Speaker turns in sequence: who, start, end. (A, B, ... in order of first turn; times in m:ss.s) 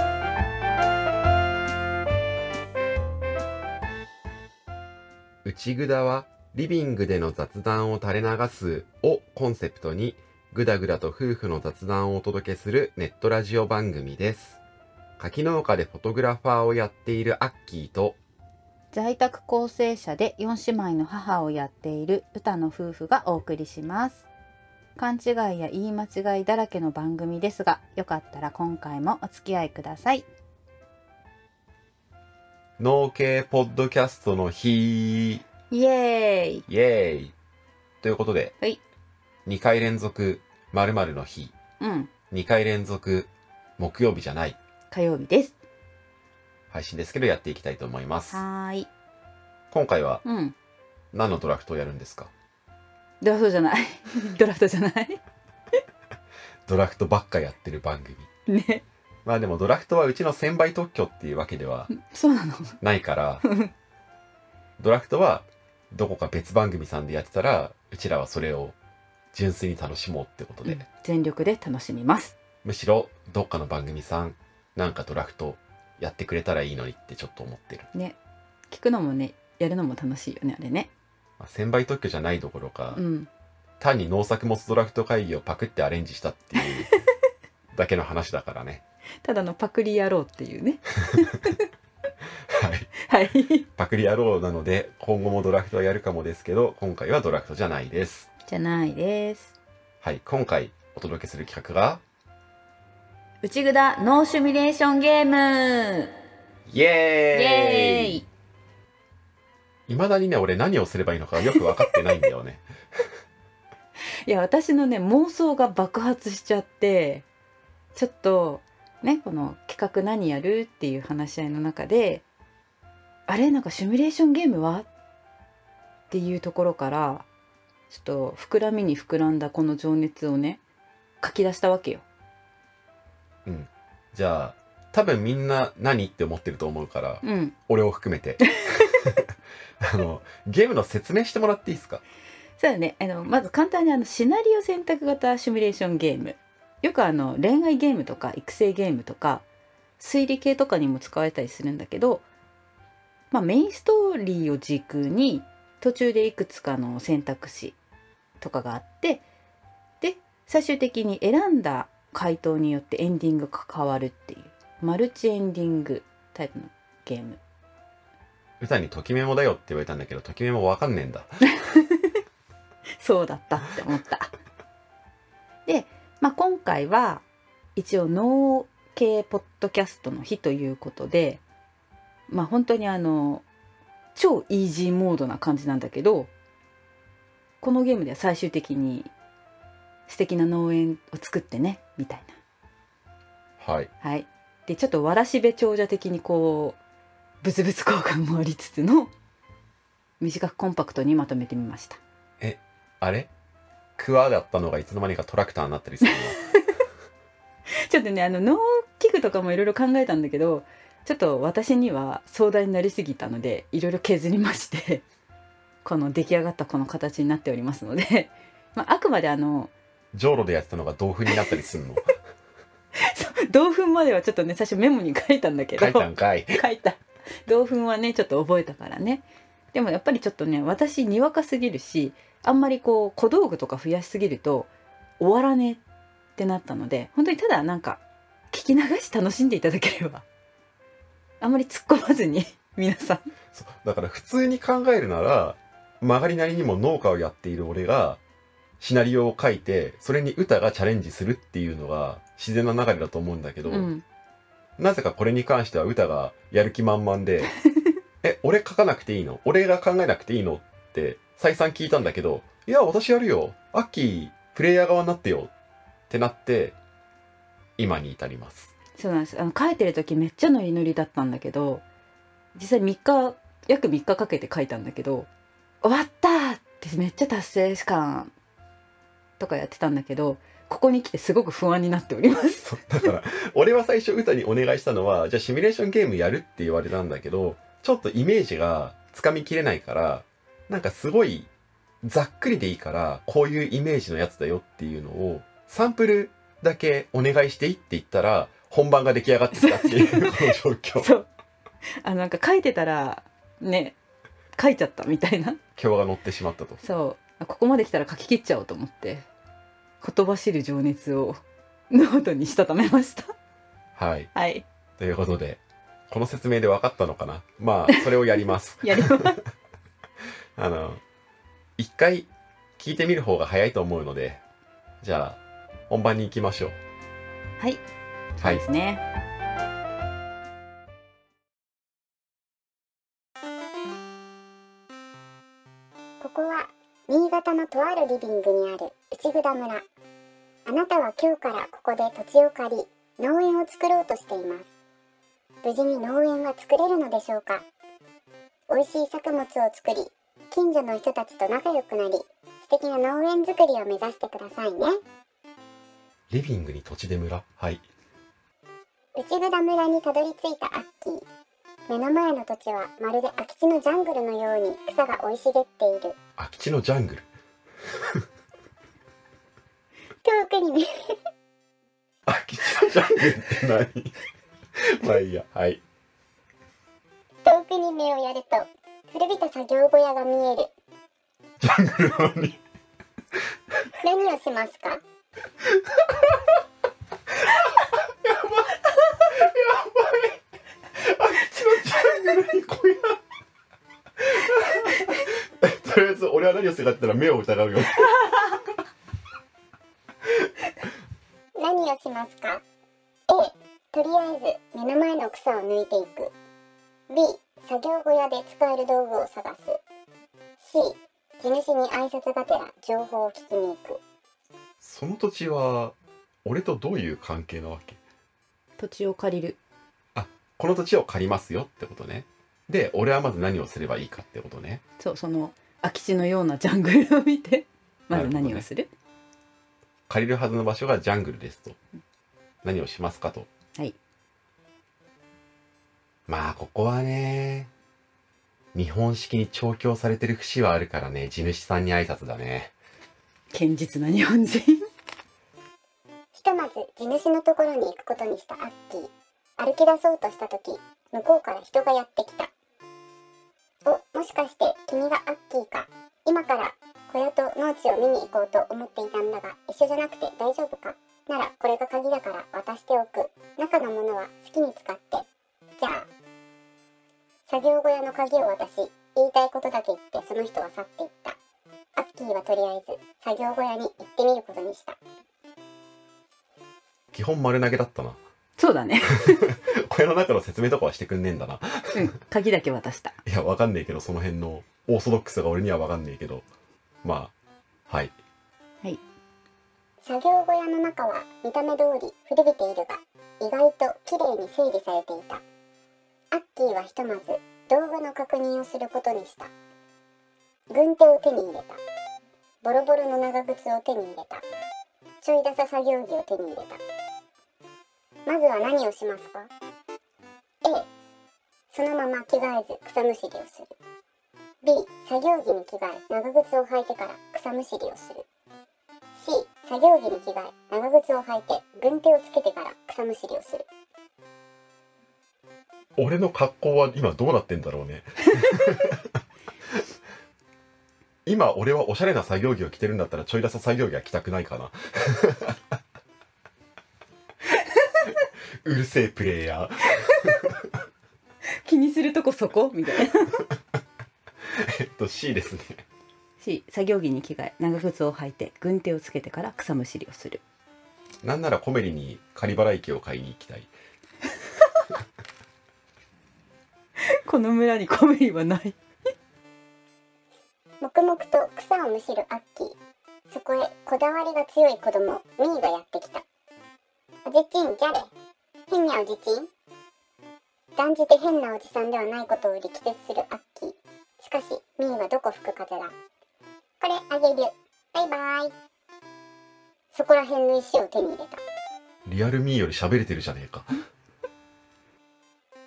0:05.4-0:14.6 A
0:15.2-0:18.2 A
0:18.9-0:24.3 B
0:25.0-0:30.3 B
0:32.8-0:35.4 A
0:35.7-0:36.7 B
0:36.7-0:37.3 A
0:38.0-0:38.5 A
0:39.5-0:41.5 A
0:41.8-0:42.1 B
0:42.3-0:44.6 A
0:44.9-0:45.6 B
0:46.7-0:48.4 A
0:48.3-0:48.9 B
0:49.7-0:50.2 A
0:50.2-0:50.6 B
0:51.1-0:52.3 A
0:53.2-0:55.2 B
0:56.7-0:58.3 A
0:58.5-0:58.8 B
0:59.2-1:01.9 A
1:01.9-1:02.8 B
1:02.8-1:03.4 A
1:03.4-1:03.7 B
1:04.8-1:08.8 A
1:09.3-1:10.9 A
1:10.7-1:12.4 B
1:12.6-1:17.9 A
1:18.7-1:20.9 B
1:21.4-1:23.0 A
1:22.9-1:23.3 B
1:23.8-1:26.9 A
1:27.7-1:28.8 A
1:29.2-1:31.6 B
1:32.5-1:32.9 A
1:33.0-1:33.7 B
1:33.8-1:38.3 A
1:38.5-1:39.6 B
1:40.0-1:42.0 A
1:43.4-1:46.1 B
1:46.7-1:48.2 A
1:47.3-1:48.3 B
1:49.9-1:52.6 A
1:54.3-1:57.3 B
1:58.0-2:02.2 B
2:03.3-2:04.9 B
2:06.1-2:07.3 B
2:07.9-2:10.6 B
2:11.2-2:12.0 B
2:13.4-2:19.2 A
2:17.2-2:17.6 B
2:18.6-2:19.1 B
2:19.8-2:22.0 A
2:22.6-2:29.4 B
2:30.0-2:32.3 B
2:33.3-2:37.8 B
2:38.4-2:39.2 B
2:40.0-2:47.4 B
2:48.6-2:51.4 A
2:51.5-2:52.2 B
2:53.0-2:54.3 B
2:55.7-2:57.2 B
2:57.8-3:01.4 B
3:02.3-3:03.4 B
3:04.2-3:06.3 B
3:07.6-3:09.1 B
3:10.1-3:12.4 B
3:13.6-3:13.9 A
3:14.0-3:16.8 B
3:17.4-3:19.1 B
3:20.2-3:22.0 B
3:22.4-3:23.3 A
3:24.0-3:26.4 A
3:26.0-3:26.7 B
3:27.8-3:35.0 B
3:35.8-3:39.7 B
3:40.1-3:42.1 A
3:43.0-3:54.7 B
3:45.8-3:46.6 A
3:55.2-3:55.8 B
3:56.4-3:58.0 B
3:58.5-4:00.2 B
4:01.4-4:03.3 B
4:03.5-4:08.2 A
4:08.8-4:13.9 A
4:13.7-4:14.0 B
4:14.8-4:17.5 A
4:18.2-4:25.5 A
4:26.1-4:26.8 A
4:27.8-4:28.7 A
4:29.0-4:31.8 B
4:32.6-4:35.3 B
4:35.8-4:38.3 B
4:39.4-4:43.1 B
4:42.6-4:51.5 A
4:52.0-5:01.1 A
4:59.6-5:01.3 B
5:02.0-5:04.0 B
5:04.6-5:05.6 B
5:05.8-5:06.8 A
5:06.8-5:09.2 B
5:10.0-5:13.3 B
5:14.0-5:14.3 A
5:14.3-5:14.6 B
5:15.0-5:19.4 A
5:18.8-5:19.4 B
5:20.6-5:21.0 A
5:21.8-5:24.4 A
5:25.0-5:26.8 A
5:28.4-5:29.0 B
5:36.2-5:39.8 C
5:40.7-5:44.7 C
5:45.6-5:47.6 C
5:48.7-5:55.0 C
5:56.3-5:57.8 A
5:59.2-6:01.2 C
6:01.9-6:06.2 C
6:06.4-6:07.3 A
6:08.0-6:08.2 A
6:10.2-6:11.2 C
6:12.3-6:14.1 A
6:14.8-6:15.8 A
6:17.4-6:20.7 C
6:21.6-6:22.6 A
6:24.0-6:25.0 C
6:28.0-6:30.4 A
6:31.0-6:33.2 A
6:34.2-6:38.6 A
6:41.6-6:42.6 C
6:43.3-6:46.3 C
6:47.1-6:49.8 C
6:50.6-6:54.0 C
6:54.8-6:58.0 A
6:58.8-6:59.6 B
7:00.2-7:04.8 A
7:05.0-7:08.9 B
7:08.1-7:08.7 A
7:10.1-7:11.8 A
7:12.6-7:13.5 A
7:16.3-7:17.7 A
7:18.7-7:22.7 A
7:23.5-7:24.9 B
7:26.3-7:32.5 C
7:33.8-7:45.3 C
7:45.8-7:46.1 C
7:47.5-7:51.4 C
7:52.0-7:55.0 C
7:57.1-7:58.2 A
7:58.6-7:59.5 B
7:59.2-8:02.0 A
8:01.9-8:03.2 B
8:03.3-8:06.4 A
8:07.0-8:07.3 A
8:07.9-8:08.1 A
8:10.0-8:15.4 C
8:16.3-8:19.5 C
8:20.7-8:21.8 C
8:22.6-8:24.4 C
8:25.2-8:26.8 C
8:28.3-8:29.5 C
8:31.7-8:33.7 C
8:34.6-8:38.2 C
8:39.2-8:43.6 C
8:46.0-8:49.2 A
8:51.3-8:55.6 A
8:58.6-9:00.7 A
9:01.6-9:03.4 B
9:04.5-9:05.8 A
9:06.4-9:10.4 B
9:11.2-9:13.7 A
9:17.1-9:18.8 B
9:20.8-9:22.8 C
9:23.3-9:26.2 C
9:27.3-9:28.1 C
9:28.7-9:29.5 C
9:30.8-9:35.9 C
9:36.8-9:38.5 C
9:39.9-9:41.4 C
9:42.1-9:43.8 A